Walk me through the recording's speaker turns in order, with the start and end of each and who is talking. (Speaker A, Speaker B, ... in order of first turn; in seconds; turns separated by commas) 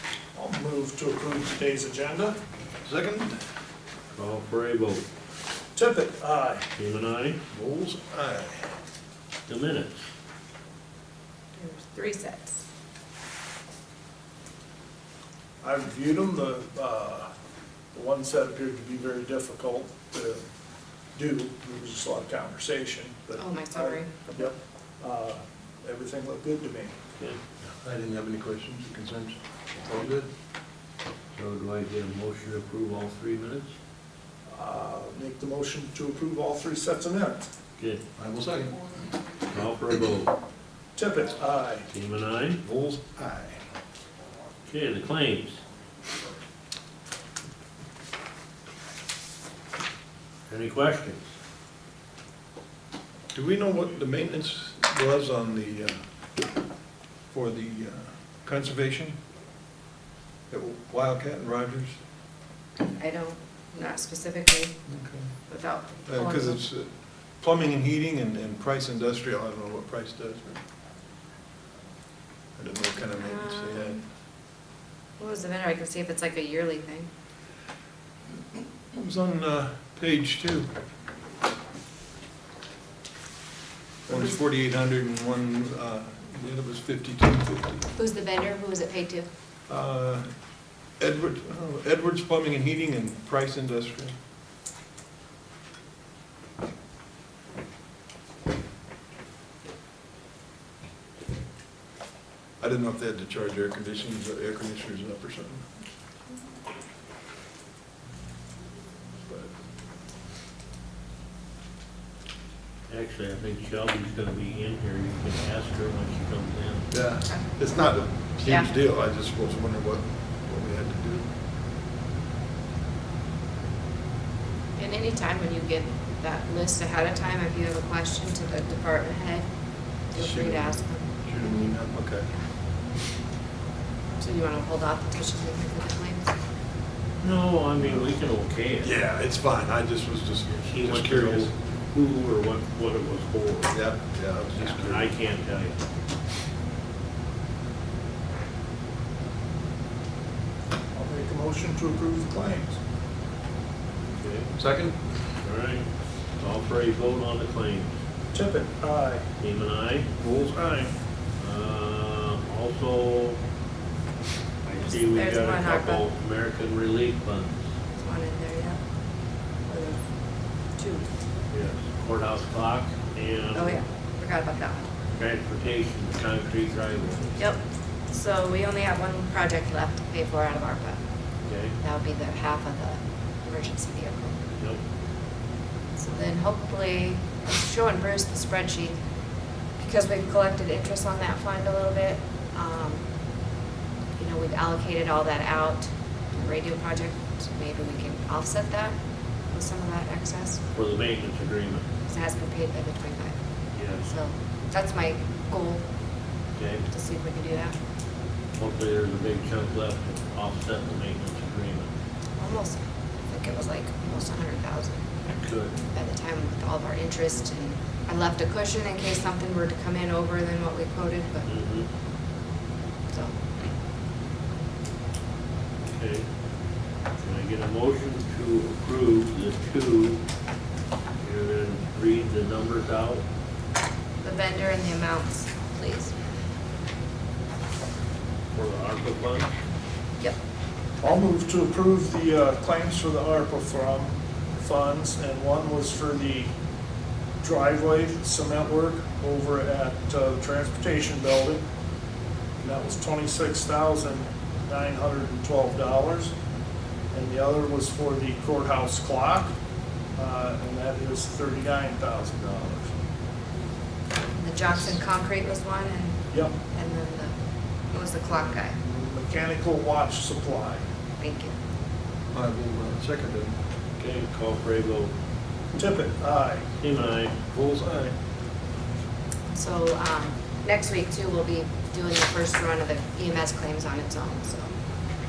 Speaker A: 0.3-2.4, Speaker B: 2.8-3.4, Speaker C: 4.1-5.0, Speaker A: 5.8-6.7, Speaker C: 6.8-7.4, Speaker B: 7.5-8.7, Speaker C: 9.5-10.1, Speaker D: 11.6-12.6, Speaker A: 15.6-17.3, Speaker A: 17.9-20.4, Speaker A: 21.1-26.9, Speaker D: 23.4-24.1, Speaker B: 27.8-30.3, Speaker C: 31.3-33.7, Speaker A: 34.5-37.5, Speaker B: 38.2-38.8, Speaker C: 39.5-40.3, Speaker A: 41.0-41.9, Speaker C: 41.9-42.6, Speaker B: 42.6-43.6, Speaker C: 44.7-45.6, Speaker C: 50.5-51.3, Speaker B: 53.3-56.0, Speaker B: 57.3-59.2, Speaker B: 60.5-62.0, Speaker D: 62.8-64.8, Speaker B: 64.9-65.3, Speaker D: 65.5-66.6, Speaker B: 66.1-66.9, Speaker B: 67.4-70.6, Speaker B: 72.6-74.0, Speaker D: 73.2-74.0, Speaker D: 75.2-77.1, Speaker B: 78.9-80.7, Speaker B: 84.1-87.9, Speaker D: 88.0-89.3, Speaker B: 89.7-90.3, Speaker B: 91.0-94.2, Speaker B: 102.6-105.7, Speaker C: 112.9-116.9, Speaker B: 116.9-121.3, Speaker D: 117.3-117.6, Speaker D: 118.5-118.7, Speaker D: 124.8-129.5, Speaker D: 130.1-131.1, Speaker B: 130.2-132.3, Speaker D: 134.2-136.3, Speaker C: 137.2-138.9, Speaker B: 138.8-141.5, Speaker C: 140.6-143.7, Speaker B: 143.7-145.1, Speaker C: 144.6-145.8, Speaker A: 150.9-152.8, Speaker C: 154.1-154.5, Speaker B: 154.6-155.0, Speaker C: 155.4-155.9, Speaker C: 156.4-157.9, Speaker A: 158.3-159.3, Speaker C: 159.4-160.1, Speaker A: 160.3-160.9, Speaker C: 161.4-163.4, Speaker C: 164.7-167.7, Speaker D: 164.8-166.1, Speaker D: 168.0-168.8, Speaker D: 169.7-170.0, Speaker D: 170.8-171.1, Speaker C: 171.5-173.8, Speaker D: 173.5-174.9, Speaker C: 175.1-177.4, Speaker D: 177.4-181.0, Speaker C: 181.5-181.8, Speaker D: 181.8-184.4, Speaker C: 184.6-184.8, Speaker D: 186.0-189.0, Speaker D: 189.8-193.1, Speaker D: 194.2-199.0, Speaker D: 199.5-200.6, Speaker C: 200.7-201.9, Speaker D: 202.1-203.4, Speaker C: 203.8-204.1, Speaker D: 204.1-205.9, Speaker C: 206.6-206.9, Speaker D: 206.9-207.8, Speaker C: 208.6-211.9, Speaker D: 212.4-215.1, Speaker C: 215.3-215.8, Speaker D: 215.9-221.5, Speaker C: 221.5-221.9, Speaker D: 223.1-223.4, Speaker C: 225.9-226.2, Speaker C: 227.2-230.2, Speaker C: 231.2-233.2, Speaker D: 234.2-236.1, Speaker C: 238.5-239.5, Speaker A: 241.0-246.5, Speaker A: 247.4-251.6, Speaker A: 252.6-256.3, Speaker A: 257.1-259.5, Speaker A: 260.2-262.9, Speaker D: 264.4-267.3, Speaker A: 266.3-266.6, Speaker D: 267.9-268.8, Speaker A: 268.8-270.8, Speaker D: 271.2-271.5, Speaker B: 272.3-273.6, Speaker C: 274.0-275.1, Speaker A: 275.8-276.7, Speaker C: 276.8-277.4, Speaker B: 277.5-278.1, Speaker D: 279.5-284.7